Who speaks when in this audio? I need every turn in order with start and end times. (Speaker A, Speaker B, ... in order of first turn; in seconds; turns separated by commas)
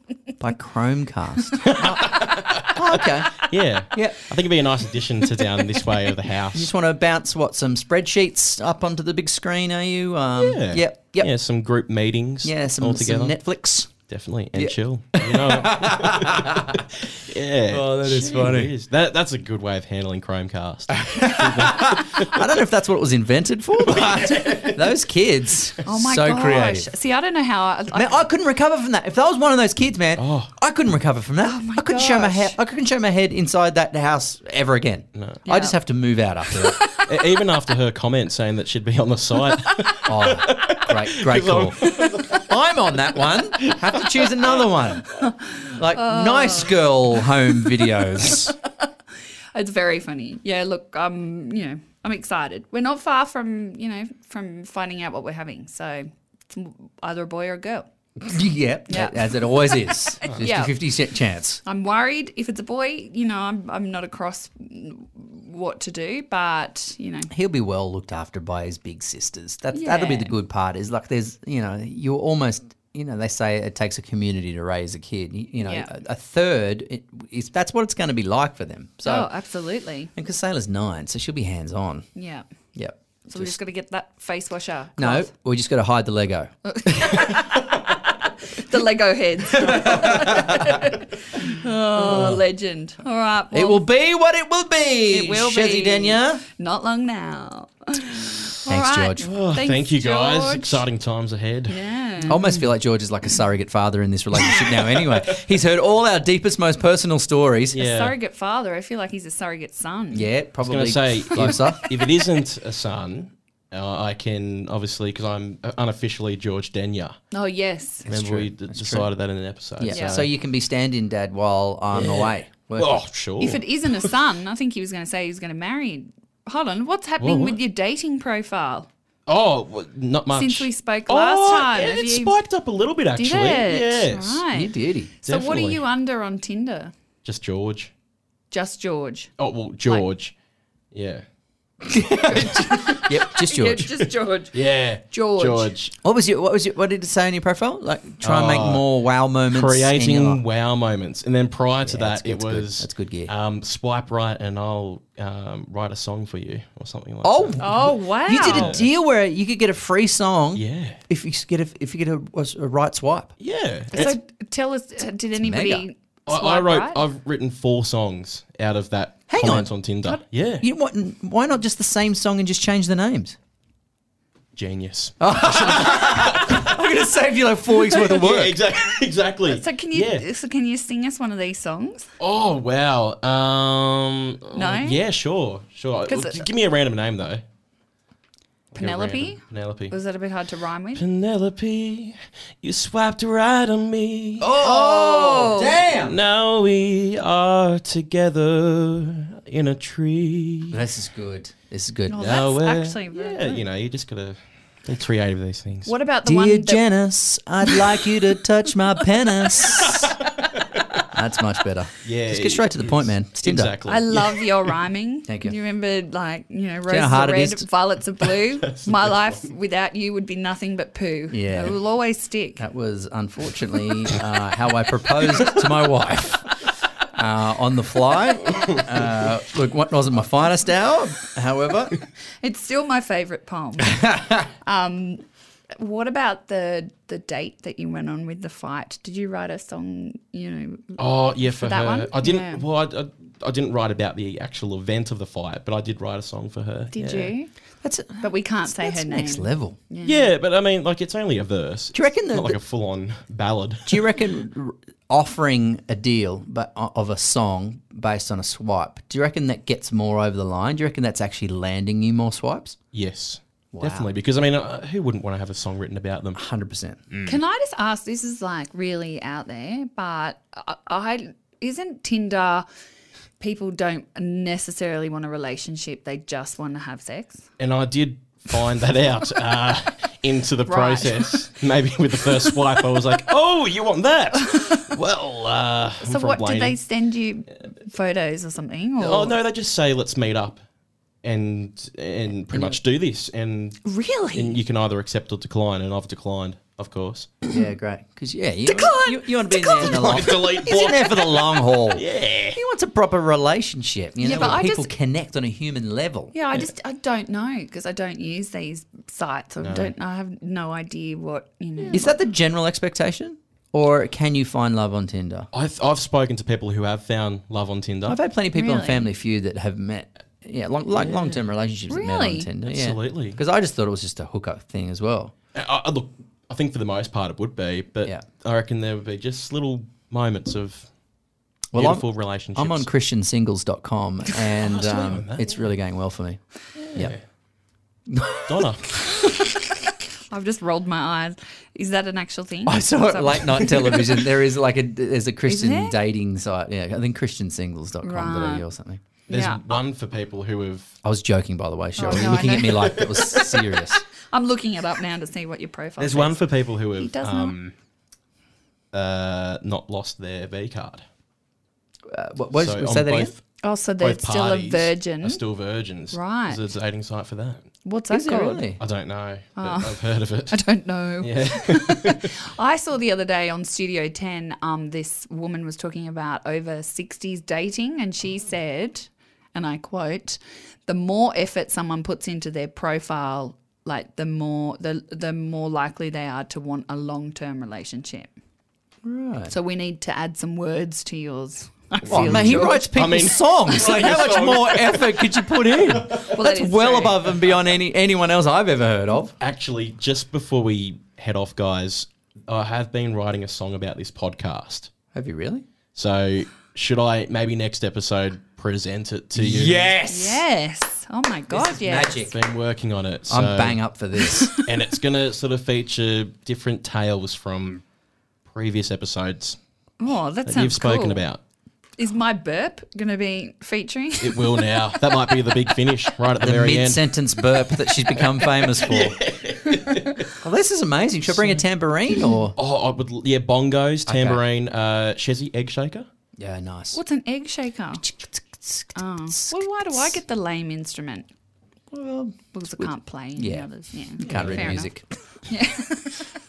Speaker A: 0.4-4.3, Speaker B: 1.7-2.7, Speaker B: 3.4-6.7, Speaker A: 6.5-11.3, Speaker B: 10.4-22.5, Speaker A: 12.4-13.9, Speaker A: 14.5-16.8, Speaker A: 17.7-18.7, Speaker A: 21.0-26.9, Speaker B: 23.9-24.9, Speaker C: 25.9-28.3, Speaker A: 27.9-36.8, Speaker B: 30.2-30.5, Speaker C: 31.4-32.5, Speaker B: 35.1-35.4, Speaker C: 35.4-35.8, Speaker B: 37.0-42.5, Speaker A: 40.0-48.5, Speaker B: 43.6-44.5, Speaker C: 45.6-46.7, Speaker C: 49.5-57.9, Speaker A: 58.2-61.6, Speaker C: 58.9-60.8, Speaker C: 61.6-67.3, Speaker A: 67.3-79.3, Speaker C: 69.7-70.3, Speaker C: 75.6-75.9, Speaker C: 79.0-80.1, Speaker A: 80.2-82.0, Speaker C: 82.1-82.5, Speaker A: 82.7-83.5, Speaker C: 83.3-85.3, Speaker A: 85.0-87.2, Speaker C: 86.7-93.8, Speaker A: 89.5-90.6, Speaker A: 92.0-92.4, Speaker B: 92.1-92.4, Speaker A: 93.5-96.4, Speaker C: 95.1-100.8, Speaker A: 98.7-99.3, Speaker B: 99.2-102.7, Speaker C: 101.7-102.4, Speaker A: 102.3-107.8, Speaker B: 107.7-108.1, Speaker C: 107.8-110.3, Speaker A: 110.1-111.9, Speaker B: 110.6-117.2, Speaker C: 117.3-118.0, Speaker A: 118.0-119.1, Speaker B: 118.1-120.2, Speaker A: 119.8-123.0, Speaker C: 119.9-120.2, Speaker B: 121.9-124.1, Speaker C: 123.4-128.9, Speaker B: 127.2-127.6, Speaker B: 129.3-134.4, Speaker C: 130.3-132.3, Speaker C: 133.2-136.9, Speaker A: 134.5-135.1, Speaker B: 135.2-135.8, Speaker B: 137.2-137.9, Speaker C: 138.5-139.3, Speaker B: 139.4-140.3, Speaker B: 140.9-141.2, Speaker A: 141.8-143.9, Speaker B: 142.3-143.2, Speaker C: 143.5-144.5, Speaker B: 143.8-145.9, Speaker C: 145.1-145.7, Speaker A: 146.0-150.4, Speaker B: 148.2-148.8, Speaker B: 149.4-157.7, Speaker A: 151.8-153.3, Speaker A: 157.2-163.3, Speaker C: 157.6-158.8, Speaker B: 158.4-158.8, Speaker B: 160.5-161.0, Speaker B: 163.4-164.2, Speaker C: 163.9-167.0, Speaker A: 165.4-165.8, Speaker B: 166.3-170.6, Speaker A: 169.3-169.7, Speaker A: 170.6-173.3, Speaker B: 174.5-176.7, Speaker A: 175.2-178.6, Speaker B: 177.8-180.2, Speaker C: 179.4-182.1, Speaker B: 182.2-187.4, Speaker C: 184.5-185.0, Speaker C: 186.1-186.5, Speaker C: 188.7-191.0, Speaker B: 188.8-189.9, Speaker B: 190.9-194.6, Speaker A: 194.4-196.2, Speaker C: 194.6-195.8, Speaker B: 196.0-200.8, Speaker A: 200.7-202.3, Speaker C: 202.1-203.6, Speaker B: 202.2-205.9, Speaker C: 205.8-206.9, Speaker A: 206.2-210.2, Speaker A: 211.1-213.7, Speaker B: 212.0-214.4, Speaker C: 213.9-222.6, Speaker A: 215.3-215.5, Speaker A: 216.9-217.6, Speaker B: 218.7-219.1, Speaker A: 221.3-221.8, Speaker A: 222.6-226.5, Speaker A: 227.1-231.9, Speaker C: 232.4-234.1, Speaker A: 233.9-234.3, Speaker C: 234.6-235.2, Speaker C: 235.8-242.6, Speaker B: 241.0-247.3, Speaker C: 246.9-247.5, Speaker A: 247.8-249.8, Speaker C: 248.2-250.3, Speaker B: 250.0-254.0, Speaker A: 251.9-252.6, Speaker A: 253.9-262.8, Speaker B: 262.9-266.4, Speaker A: 263.7-264.1, Speaker A: 266.3-267.0, Speaker B: 267.1-267.4, Speaker C: 267.2-272.6, Speaker C: 273.4-277.4, Speaker B: 277.6-286.8, Speaker C: 280.7-281.4, Speaker C: 286.0-289.4, Speaker B: 289.0-290.6, Speaker B: 291.2-293.8, Speaker A: 292.5-292.8, Speaker C: 293.8-294.6, Speaker B: 294.3-297.4, Speaker A: 297.5-306.3, Speaker C: 298.6-300.1, Speaker B: 299.8-302.6, Speaker C: 304.2-304.9, Speaker B: 304.3-304.6, Speaker C: 306.3-312.1, Speaker B: 309.6-309.9, Speaker A: 311.9-315.5, Speaker B: 315.5-318.2, Speaker A: 318.1-325.3, Speaker C: 318.5-319.1, Speaker B: 321.0-321.2, Speaker C: 321.9-322.5, Speaker B: 322.6-323.4, Speaker B: 325.5-330.9, Speaker A: 331.7-336.4, Speaker B: 331.7-332.9, Speaker B: 334.5-335.5, Speaker B: 336.8-337.2, Speaker A: 338.1-339.3, Speaker B: 338.4-339.0, Speaker C: 340.3-344.1, Speaker A: 342.6-349.0, Speaker C: 345.4-346.0, Speaker C: 348.0-348.6, Speaker C: 349.3-349.7, Speaker B: 349.3-351.0, Speaker A: 351.0-354.0, Speaker C: 351.9-353.5, Speaker B: 352.0-353.4, Speaker C: 354.3-356.4, Speaker B: 356.0-357.7, Speaker C: 356.9-357.6, Speaker B: 358.9-361.0, Speaker A: 362.1-363.3, Speaker B: 362.5-363.4, Speaker C: 363.6-365.4, Speaker B: 364.0-367.7, Speaker C: 366.1-366.6, Speaker C: 367.8-368.7, Speaker A: 368.1-368.8, Speaker B: 368.8-370.6, Speaker C: 369.6-388.3, Speaker B: 371.2-372.3, Speaker A: 389.0-389.5, Speaker C: 389.5-392.9, Speaker B: 392.0-396.2, Speaker A: 392.1-399.3, Speaker C: 396.3-397.3, Speaker B: 399.4-404.9, Speaker A: 405.1-405.6, Speaker B: 405.9-409.9, Speaker A: 409.4-410.4, Speaker C: 410.1-412.3, Speaker A: 411.5-412.3, Speaker B: 412.3-413.8, Speaker A: 413.3-414.5, Speaker B: 414.6-417.8, Speaker B: 418.5-419.6, Speaker C: 420.0-421.2, Speaker B: 420.4-421.4, Speaker C: 422.0-424.8, Speaker B: 424.2-430.3, Speaker A: 426.4-429.2, Speaker A: 430.4-432.6, Speaker B: 431.3-431.6, Speaker B: 432.6-436.1, Speaker A: 434.1-434.4, Speaker A: 436.4-437.0, Speaker C: 436.9-438.0, Speaker A: 438.0-440.2, Speaker C: 438.9-441.3, Speaker A: 441.9-443.7, Speaker C: 442.5-444.9, Speaker A: 444.2-445.0, Speaker B: 444.2-444.8, Speaker C: 445.5-446.3